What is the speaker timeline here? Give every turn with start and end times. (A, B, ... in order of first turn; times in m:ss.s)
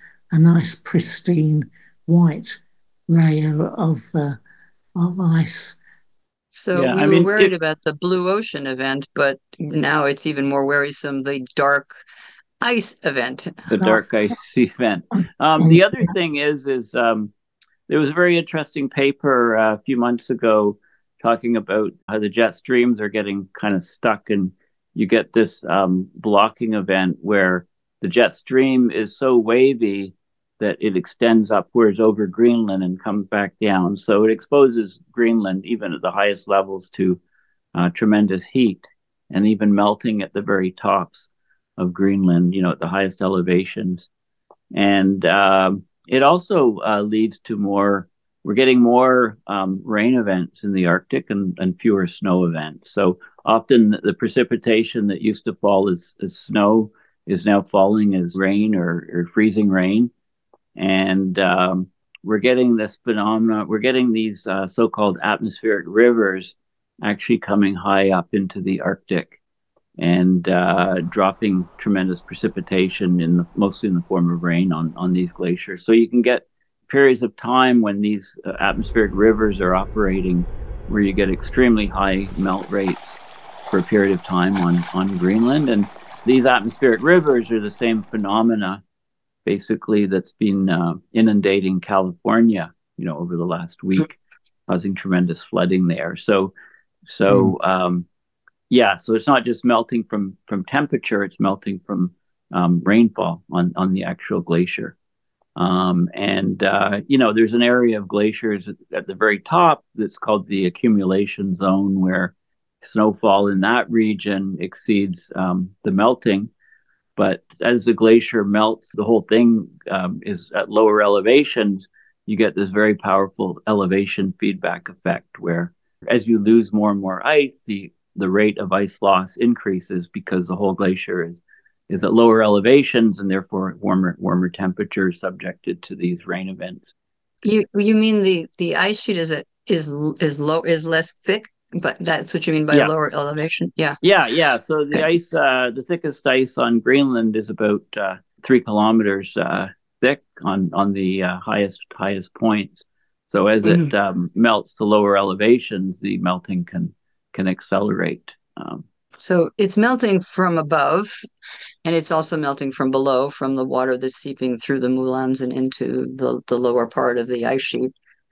0:00.3-0:04.4 A
0:05.0-0:05.8 A
0:06.5-0:12.0 B
0:06.7-0:07.5 C
0:12.6-0:14.0 B
0:13.7-0:17.3 C
0:17.9-0:37.2 C
0:37.7-0:44.1 C
0:44.7-1:00.1 C
1:00.8-1:09.4 C
1:10.0-1:28.8 C
1:29.4-1:34.1 C
1:34.7-1:36.5 C
1:37.1-1:38.1 C
1:38.7-1:45.0 C
1:45.6-1:56.5 C
1:57.2-2:16.9 C
2:17.4-2:24.0 B
2:24.0-2:38.8 C
2:33.6-2:33.9 B
2:39.2-2:41.2 B
2:41.8-2:47.9 B